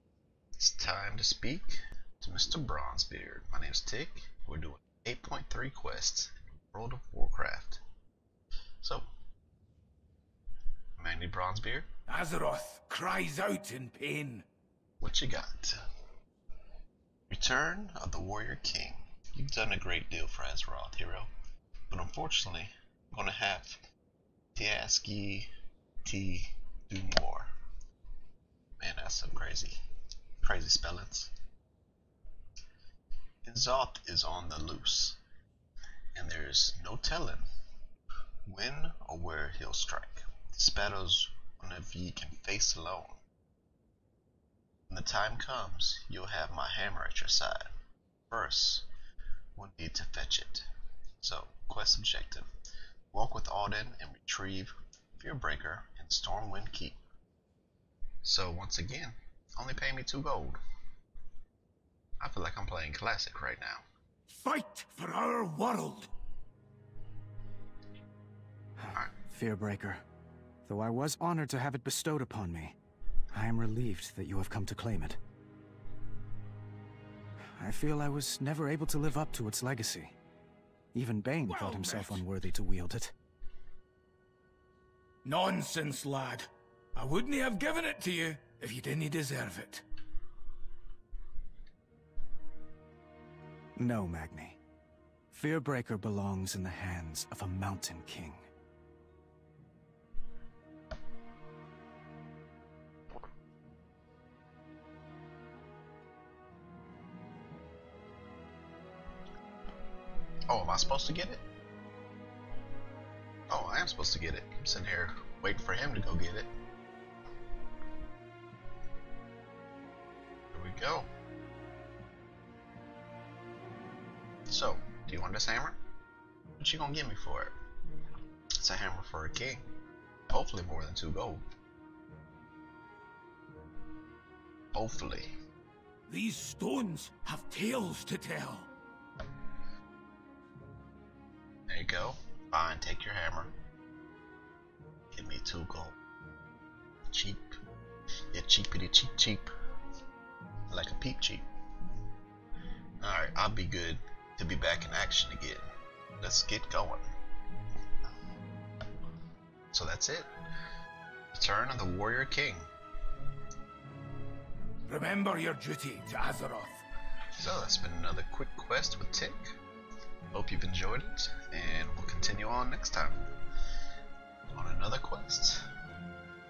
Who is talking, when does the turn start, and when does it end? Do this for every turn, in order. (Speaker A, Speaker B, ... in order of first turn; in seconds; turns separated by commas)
Speaker A: 0.6-7.8, Speaker A: 11.0-11.9, Speaker B: 12.1-14.4, Speaker A: 15.0-15.8, Speaker A: 17.3-21.3, Speaker A: 21.9-23.8, Speaker A: 24.6-25.5, Speaker A: 26.0-27.5, Speaker A: 28.8-29.8, Speaker A: 30.4-31.3, Speaker A: 33.4-35.2, Speaker A: 36.1-37.4, Speaker A: 38.5-43.2, Speaker A: 44.9-47.7, Speaker A: 48.3-48.9, Speaker A: 49.5-50.6, Speaker A: 51.2-52.5, Speaker A: 53.1-57.0, Speaker A: 58.2-60.6, Speaker A: 62.2-63.8, Speaker B: 64.3-66.1, Speaker C: 68.8-70.0, Speaker C: 70.7-72.7, Speaker C: 73.3-75.2, Speaker C: 77.6-80.1, Speaker C: 80.9-83.1, Speaker B: 81.5-82.2, Speaker B: 85.2-89.8, Speaker C: 93.8-94.6, Speaker C: 95.3-98.5, Speaker A: 110.5-111.4, Speaker A: 113.5-116.5, Speaker A: 120.5-121.1, Speaker A: 124.5-125.8, Speaker A: 126.6-127.5, Speaker A: 128.6-129.6, Speaker A: 130.3-131.4, Speaker A: 134.7-135.3, Speaker B: 136.1-138.7, Speaker A: 141.7-143.5, Speaker A: 145.1-146.0, Speaker A: 147.1-147.5, Speaker A: 148.3-149.5, Speaker A: 150.7-151.4, Speaker A: 153.0-155.7, Speaker A: 156.2-157.1, Speaker A: 159.7-160.3, Speaker A: 161.3-162.7, Speaker B: 164.8-166.8, Speaker A: 167.4-169.4, Speaker A: 170.3-173.2, Speaker A: 174.5-175.6